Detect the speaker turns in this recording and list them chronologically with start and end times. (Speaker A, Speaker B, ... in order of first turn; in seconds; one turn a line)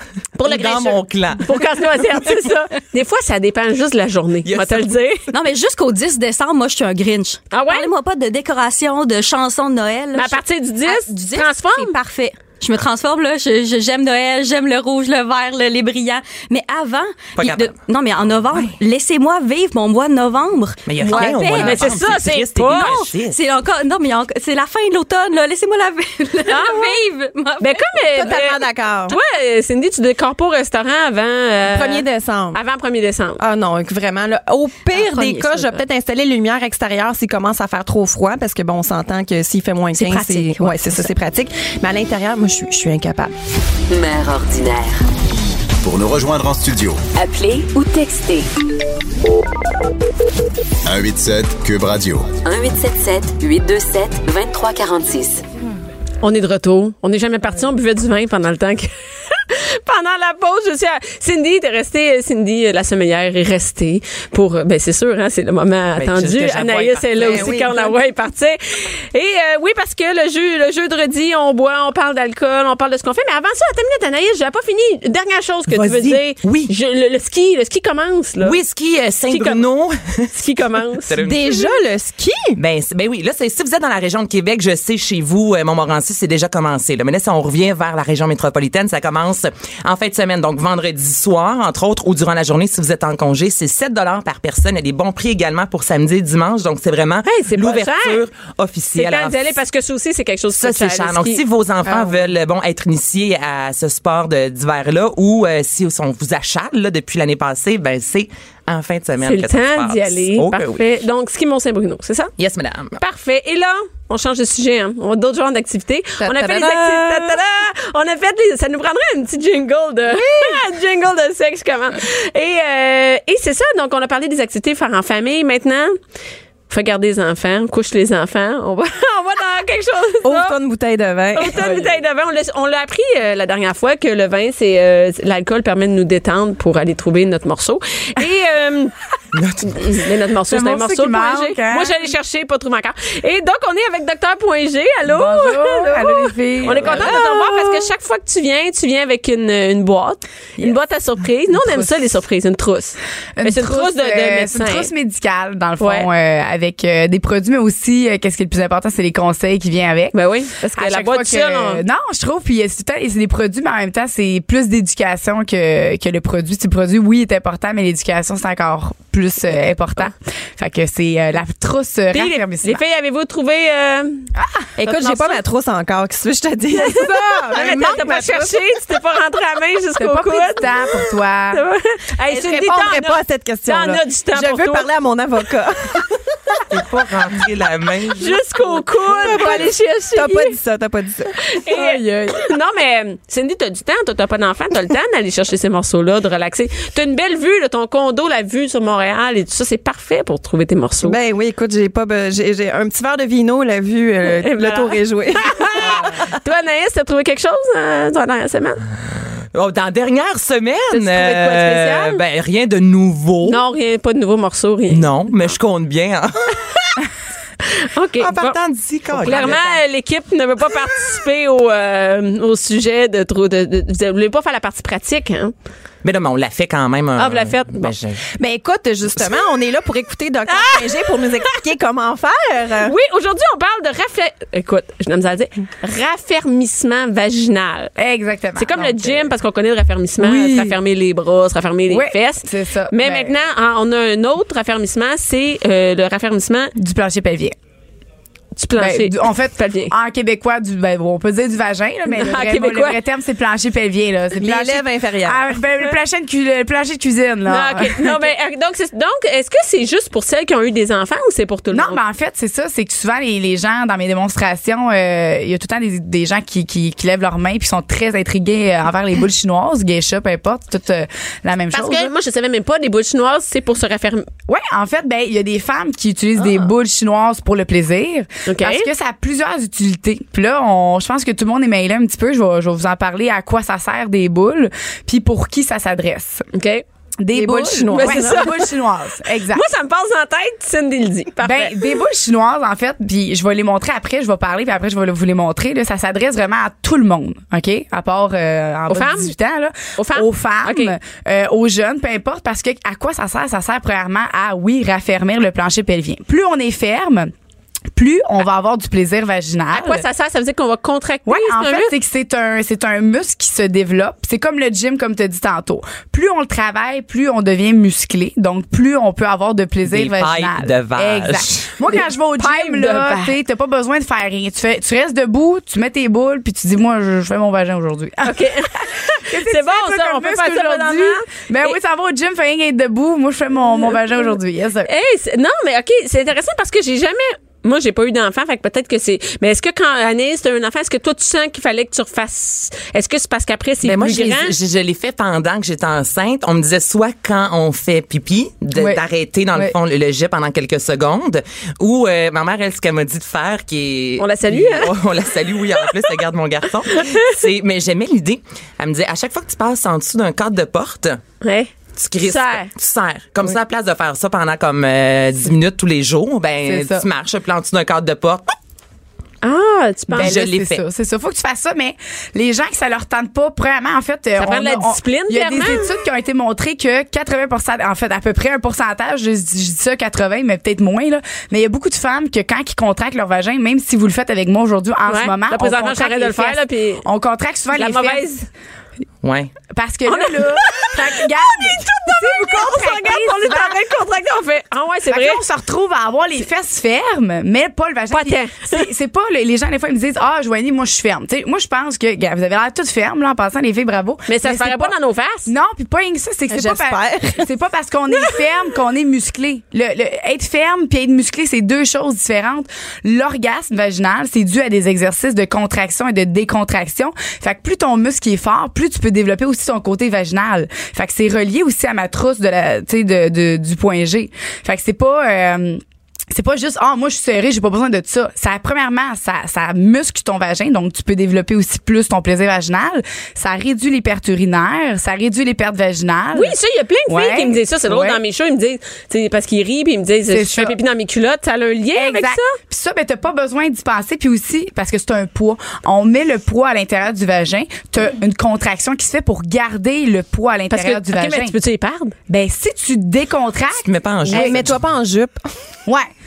Speaker A: 0.4-5.2
Speaker B: 0.4-1.8
Speaker B: 4.4-5.0
Speaker C: 5.3-22.0
Speaker A: 7.5-7.9
Speaker A: 10.1-11.9
Speaker B: 17.4-17.7
Speaker B: 20.9-23.4
Speaker A: 21.6-23.0
Speaker C: 22.7-28.3
Speaker A: 26.5-27.0
Speaker A: 27.6-33.4
Speaker D: 28.1-29.2
Speaker D: 31.7-32.6
Speaker D: 33.4-43.3
Speaker C: 34.9-35.8
Speaker C: 39.9-41.1
Speaker E: 43.9-45.0
Speaker F: 45.8-47.0
Speaker E: 47.1-48.5
Speaker F: 50.8-52.3
Speaker E: 52.4-55.4
Speaker A: 56.2-78.6
Speaker B: 66.0-67.7
Speaker D: 67.2-67.9
Speaker B: 75.7-76.7
Speaker B: 78.4-80.3
Speaker A: 79.3-79.6
Speaker A: 80.3-81.2
Speaker B: 80.9-81.7
Speaker D: 81.2-82.6
Speaker B: 82.6-99.6
Speaker A: 97.2-98.2
Speaker A: 98.9-101.4
Speaker B: 100.5-110.8
Speaker A: 109.2-112.3
Speaker B: 112.4-113.0
Speaker A: 113.0-126.0
Speaker D: 116.2-117.4
Speaker D: 120.1-120.6
Speaker A: 126.7-130.6
Speaker D: 130.2-131.9
Speaker A: 131.3-138.9
Speaker B: 139.3-140.0
Speaker A: 139.6-154.9
Speaker G: 140.5-142.0
Speaker G: 145.1-147.6
Speaker D: 146.8-147.2
Speaker G: 151.5-152.1
Speaker G: 153.4-160.1
Speaker A: 155.8-156.1
Speaker A: 160.1-161.8
Speaker G: 160.7-172.8
Speaker A: 172.1-174.3
Speaker G: 174.3-174.7
Speaker D: 174.8-178.6
Speaker A: 174.8-175.4
Speaker A: 176.7-180.8
Speaker G: 180.0-181.6
Speaker A: 181.5-184.9
Speaker D: 182.3-186.6
Speaker B: 186.7-188.8
Speaker A: 188.2-190.6
Speaker D: 188.9-192.2
Speaker A: 191.4-201.2
Speaker D: 201.0-206.2
Speaker A: 204.4-208.8
Speaker B: 209.5-213.6
Speaker A: 210.9-212.2
Speaker A: 213.4-215.1
Speaker B: 214.9-216.9
Speaker A: 217.6-218.6
Speaker B: 218.2-219.6
Speaker A: 219.1-225.5
Speaker D: 219.3-219.6
Speaker B: 226.0-228.2
Speaker A: 227.2-227.9
Speaker D: 228.4-232.9
Speaker A: 230.5-231.2
Speaker A: 232.8-237.9
Speaker G: 238.0-239.3
Speaker A: 238.6-246.7
Speaker G: 240.2-240.8
Speaker G: 241.9-243.3
Speaker G: 246.8-247.5
Speaker A: 248.6-249.9
Speaker G: 248.8-258.3
Speaker A: 252.1-253.0
Speaker D: 254.3-255.6
Speaker A: 257.5-262.0
Speaker G: 261.7-272.1
Speaker A: 271.7-274.3
Speaker G: 274.5-286.4
Speaker A: 276.4-276.6
Speaker A: 278.4-278.9
Speaker A: 286.5-286.8
Speaker G: 287.2-289.6
Speaker D: 287.3-288.5
Speaker A: 287.8-288.8
Speaker A: 289.5-291.9
Speaker G: 291.4-307.3
Speaker A: 298.9-299.3
Speaker A: 300.0-300.9
Speaker G: 307.9-310.0
Speaker A: 309.7-311.9
Speaker G: 311.2-334.9
Speaker B: 319.9-321.7
Speaker A: 321.9-323.3
Speaker A: 328.2-331.8
Speaker A: 333.8-334.3
Speaker A: 334.8-344.6
Speaker B: 343.8-361.2
Speaker G: 348.7-349.0
Speaker A: 354.2-354.9
Speaker A: 356.9-357.3
Speaker A: 361.4-362.7
Speaker B: 361.9-368.5
Speaker G: 366.6-367.0
Speaker A: 369.4-370.4
Speaker G: 370.1-388.2
Speaker B: 370.1-370.8
Speaker A: 374.4-375.9
Speaker A: 385.1-387.1
Speaker A: 387.7-388.5
Speaker B: 389.2-389.5
Speaker G: 389.7-393.8
Speaker A: 390.1-395.4
Speaker G: 395.1-404.9
Speaker A: 398.1-398.9
Speaker A: 404.3-405.5
Speaker G: 405.4-436.5
Speaker D: 406.5-407.4
Speaker A: 436.3-442.5
Speaker G: 437.1-438.2
Speaker G: 440.3-440.8
Speaker G: 441.9-451.6
Speaker A: 450.7-452.1
Speaker G: 452.3-454.6
Speaker B: 453.8-454.8
Speaker D: 454.3-455.5